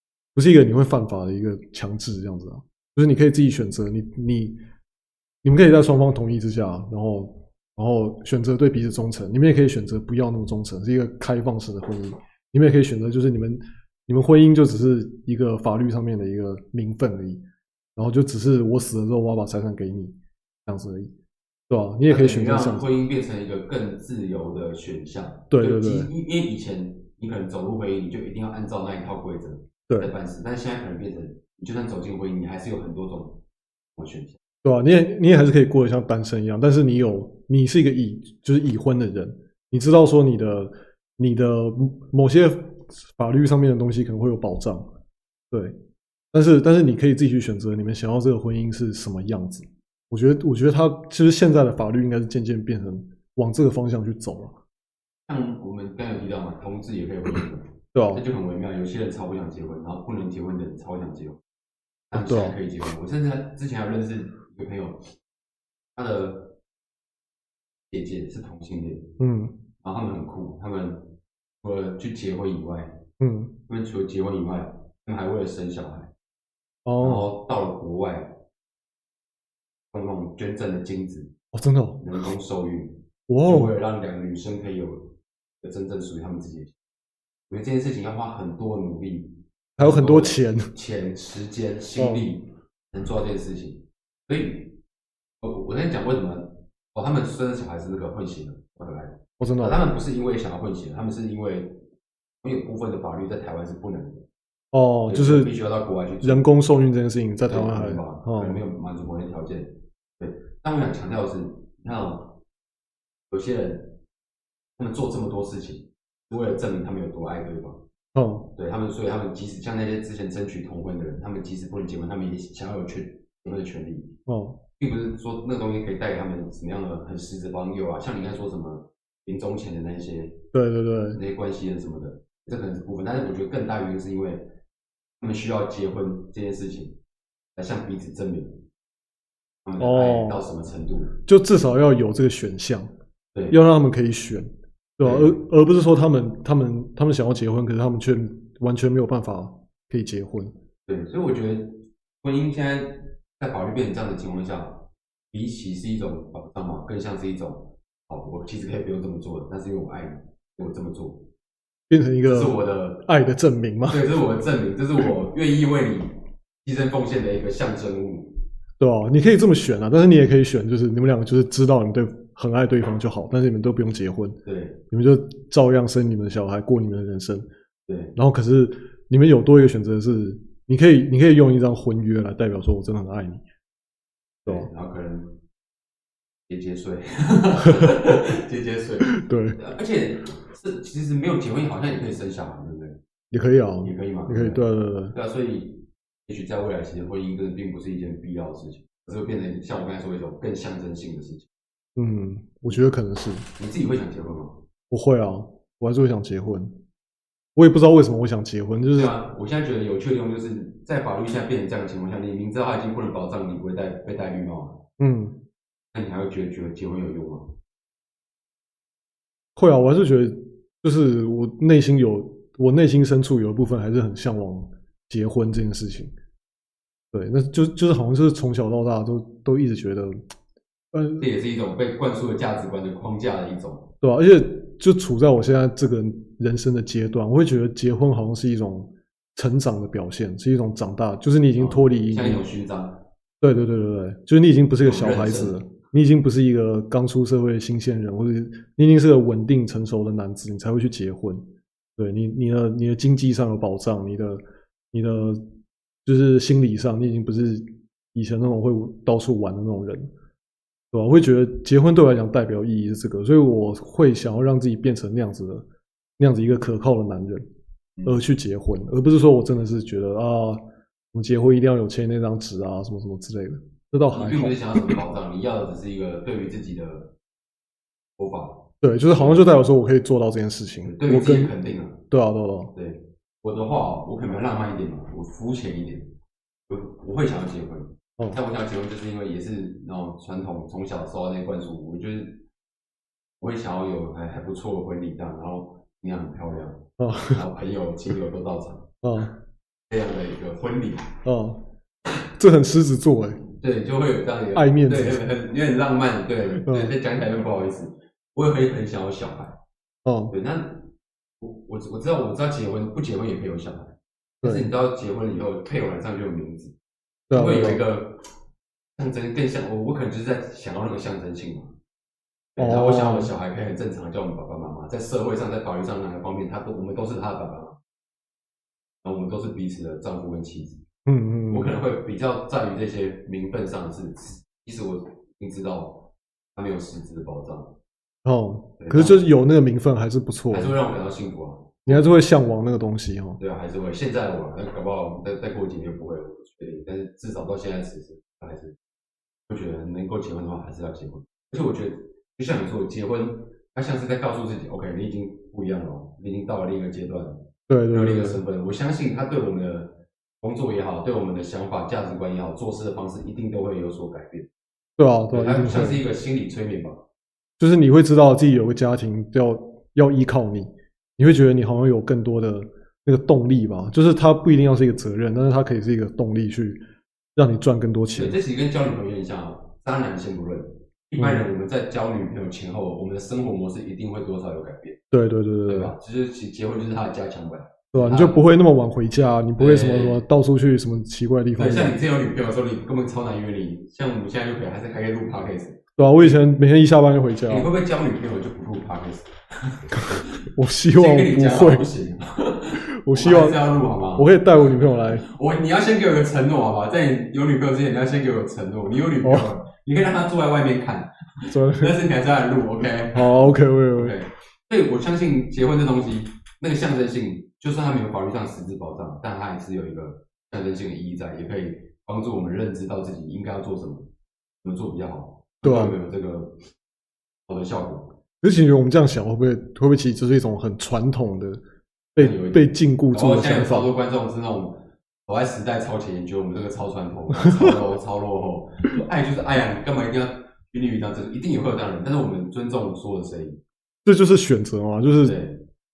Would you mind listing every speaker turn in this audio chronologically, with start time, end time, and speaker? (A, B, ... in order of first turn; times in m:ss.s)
0:00.3-0:04.6 A
0:05.4-0:17.4 A
0:18.0-0:20.1 A
0:20.7-0:21.1 A
0:21.7-0:22.8 A
0:22.1-0:33.4 B
0:25.5-0:26.1 A
0:33.9-0:34.4 B
0:34.6-0:44.9 A
0:46.3-0:54.5 A
0:55.3-1:01.4 B
0:57.9-0:58.2 A
1:02.1-1:05.0 B
1:02.1-1:02.6 A
1:06.0-1:06.5 B
1:07.9-1:09.1 B
1:09.2-1:09.5 A
1:09.8-1:13.0 B
1:13.2-1:13.5 A
1:13.7-1:16.1 B
1:16.8-1:17.3 A
1:17.0-1:18.4 B
1:19.9-1:21.3 B
1:21.5-1:22.0 A
1:22.0-1:26.7 B
1:23.3-1:23.7 A
1:27.5-1:34.8 B
1:29.8-1:30.7 A
1:32.0-1:32.2 A
1:35.4-1:41.8 B
1:39.4-1:39.8 A
1:42.4-1:44.2 B
1:44.7-1:45.5 A
1:45.1-1:46.5 B
1:46.2-1:48.6 A
1:47.5-1:52.4 B
1:53.3-1:54.0 B
1:54.8-1:57.8 B
1:58.1-1:58.5 A
1:58.5-2:04.1 B
2:04.3-2:04.6 A
2:04.8-2:10.4 B
2:10.5-2:11.2 A
2:11.1-2:14.4 B
2:15.2-2:17.0 B
2:17.5-2:18.6 B
2:19.6-2:21.1 B
2:19.8-2:20.4 A
2:21.2-2:22.9 A
2:23.5-2:30.5 A
2:25.0-2:25.4 B
2:30.8-2:41.3 B
2:41.9-2:44.1 A
2:42.2-2:43.0 B
2:43.9-2:48.4 B
2:48.8-2:54.4 A
2:54.4-2:54.8 B
2:54.9-2:57.5 A
2:57.9-2:58.1 B
2:58.2-3:03.4 A
3:04.4-3:05.3 B
3:06.5-3:13.0 B
3:09.0-3:09.6 A
3:13.3-3:15.1 A
3:13.8-3:21.5 B
3:22.0-3:23.5 A
3:23.6-3:24.6 B
3:24.9-3:26.7 A
3:27.6-3:29.1 A
3:28.9-3:34.8 B
3:35.0-3:35.4 A
3:35.9-3:37.5 B
3:39.6-3:46.1 A
3:47.1-3:50.2 A
3:50.9-3:51.3 A
3:51.2-3:53.9 B
3:54.0-4:02.4 A
4:01.6-4:03.0 B
4:03.4-4:11.4 A
4:04.8-4:05.6 B
4:12.0-4:14.4 A
4:14.9-4:15.4 A
4:16.0-4:20.1 A
4:20.9-4:25.6 A
4:26.2-4:27.5 A
4:28.0-4:30.6 A
4:31.1-4:34.9 A
4:34.1-4:37.1 B
4:38.2-4:39.6 B
4:38.8-4:41.5 A
4:40.8-4:42.0 B
4:42.1-4:42.7 A
4:42.7-4:46.1 B
4:46.7-4:52.4 B
4:53.4-4:58.9 B
4:57.0-4:57.4 A
4:59.0-4:59.3 A
4:59.9-5:01.2 B
5:01.2-5:01.6 A
5:02.4-5:03.4 A
5:03.4-5:09.6 B
5:04.5-5:05.2 A
5:06.6-5:06.9 A
5:10.0-5:10.3 A
5:10.3-5:16.7 B
5:14.4-5:14.7 A
5:17.3-5:17.8 A
5:17.3-5:18.2 B
5:19.0-5:21.7 B
5:22.5-5:27.8 B
5:22.6-5:23.3 A
5:29.0-5:30.8 B
5:31.0-5:31.8 A
5:31.5-5:37.8 B
5:38.2-5:40.7 A
5:38.8-5:39.3 B
5:40.5-5:42.1 B
5:41.9-5:43.4 A
5:43.4-5:48.7 B
5:49.5-6:04.5 B
5:57.7-5:58.4 A
6:05.0-6:06.0 A
6:05.3-6:07.0 B
6:07.6-6:16.8 A
6:17.4-6:18.4 A
6:18.1-6:25.0 B
6:21.2-6:21.4 A
6:25.1-6:25.9 A
6:25.7-6:28.6 B
6:27.9-6:32.0 A
6:29.6-6:30.2 B
6:31.6-6:36.4 B
6:36.0-6:37.7 A
6:37.5-6:40.3 B
6:40.0-6:41.8 A
6:40.9-7:04.1 B
6:42.8-6:43.6 A
6:44.1-6:45.2 A
6:49.2-6:49.5 A
6:51.5-6:51.9 A
6:53.1-6:54.1 A
7:04.6-7:06.7 B
7:05.6-7:05.9 A
7:07.5-7:08.2 B
7:08.4-7:11.6 A
7:12.2-7:13.9 A
7:12.2-7:23.6 B
7:17.4-7:17.8 A
7:24.0-7:25.4 A
7:25.2-7:25.6 B